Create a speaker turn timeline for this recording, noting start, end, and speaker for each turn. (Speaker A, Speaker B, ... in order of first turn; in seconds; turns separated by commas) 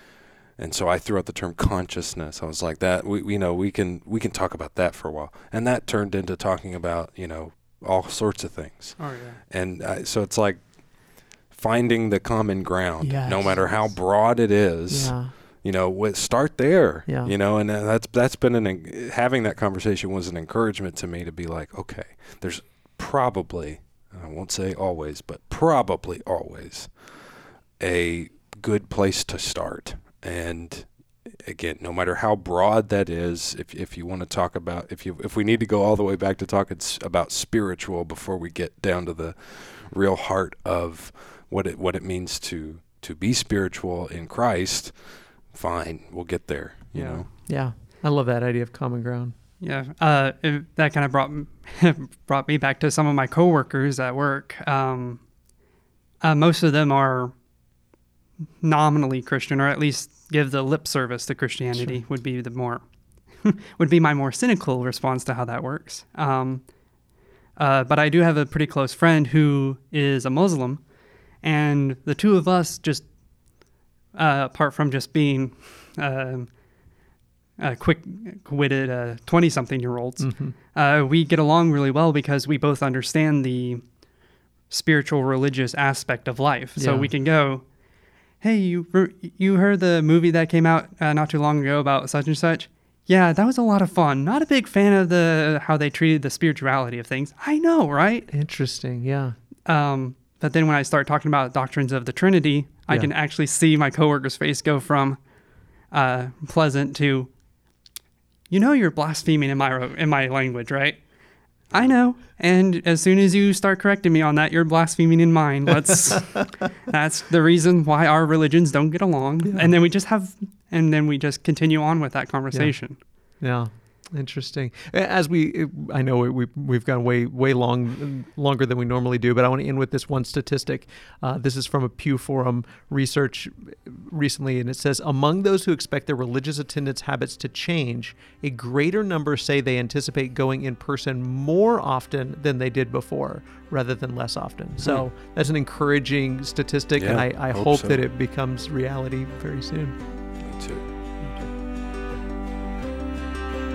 Speaker A: 0.6-10.7, Speaker B: 9.0-9.4, Speaker A: 11.5-47.3, Speaker C: 13.0-13.7, Speaker C: 14.9-15.3, Speaker C: 17.1-17.3, Speaker C: 47.0-49.3, Speaker B: 49.6-55.2, Speaker B: 56.2-57.4, Speaker B: 58.6-62.8, Speaker C: 61.7-62.0, Speaker B: 63.4-66.7, Speaker B: 67.6-70.8, Speaker B: 71.4-73.1, Speaker B: 74.1-76.5, Speaker B: 77.6-83.8, Speaker C: 80.2-80.5, Speaker B: 84.7-87.6, Speaker C: 86.8-87.1, Speaker B: 88.4-98.3, Speaker C: 98.3-99.4, Speaker B: 99.7-105.2, Speaker B: 105.9-107.3, Speaker B: 108.5-111.0, Speaker B: 111.7-123.0, Speaker C: 119.4-119.7, Speaker C: 123.4-150.0, Speaker A: 147.0-148.0, Speaker A: 150.4-150.9